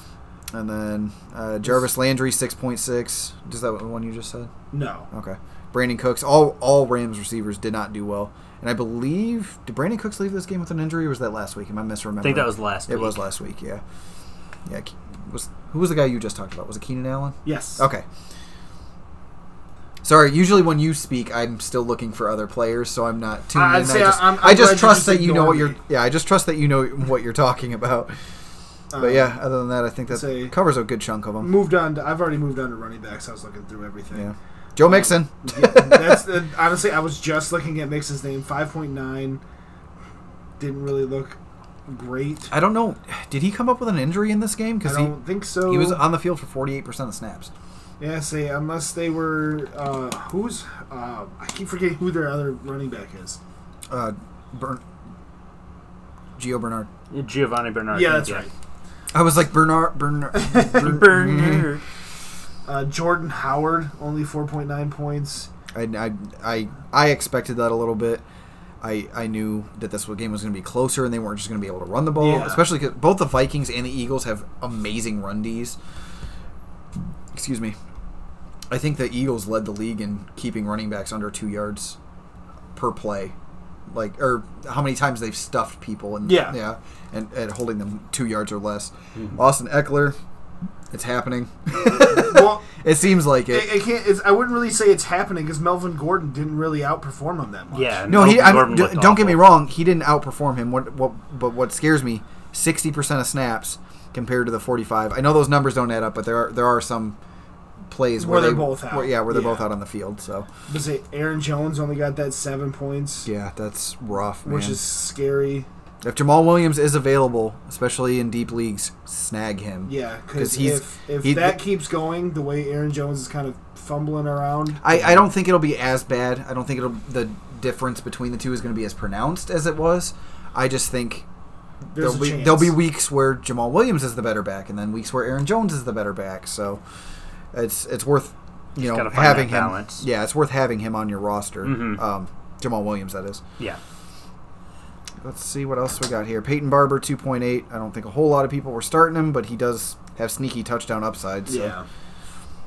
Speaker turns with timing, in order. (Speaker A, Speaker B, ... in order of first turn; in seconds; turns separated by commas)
Speaker A: 0.5-4.5, Speaker B: 4.7-5.1, Speaker A: 5.1-13.8, Speaker C: 12.2-13.2, Speaker A: 14.7-18.0, Speaker B: 17.4-17.8, Speaker A: 20.0-28.1, Speaker B: 23.5-25.8, Speaker B: 28.9-29.3, Speaker A: 29.0-31.5, Speaker B: 30.1-30.5, Speaker B: 31.4-39.4, Speaker A: 34.1-36.3, Speaker B: 40.6-42.5, Speaker A: 42.5-47.5, Speaker B: 44.8-46.0, Speaker B: 48.0-53.4, Speaker A: 53.9-54.8, Speaker A: 56.4-56.9, Speaker C: 57.1-58.5, Speaker B: 57.9-58.5, Speaker A: 59.1-61.7, Speaker B: 60.3-60.8, Speaker C: 60.6-61.8, Speaker B: 62.6-65.5, Speaker A: 65.7-68.2, Speaker A: 68.8-75.8, Speaker B: 72.2-72.6, Speaker A: 77.3-77.8, Speaker A: 78.7-82.0, Speaker A: 82.7-83.3, Speaker A: 83.9-90.2, Speaker B: 86.2-86.6, Speaker A: 90.9-93.8, Speaker B: 92.0-92.8, Speaker B: 93.5-98.0, Speaker C: 97.7-99.5, Speaker A: 98.1-107.2, Speaker A: 107.9-110.5, Speaker B: 108.2-109.7, Speaker B: 110.7-113.3, Speaker A: 113.2-114.8, Speaker B: 114.4-115.7, Speaker A: 116.0-121.6, Speaker B: 119.8-125.2, Speaker A: 124.8-131.2, Speaker B: 131.9-132.8, Speaker A: 131.9-136.8, Speaker A: 137.5-143.4, Speaker C: 138.8-140.0, Speaker C: 141.6-142.0, Speaker A: 145.2-151.7, Speaker B: 151.5-151.8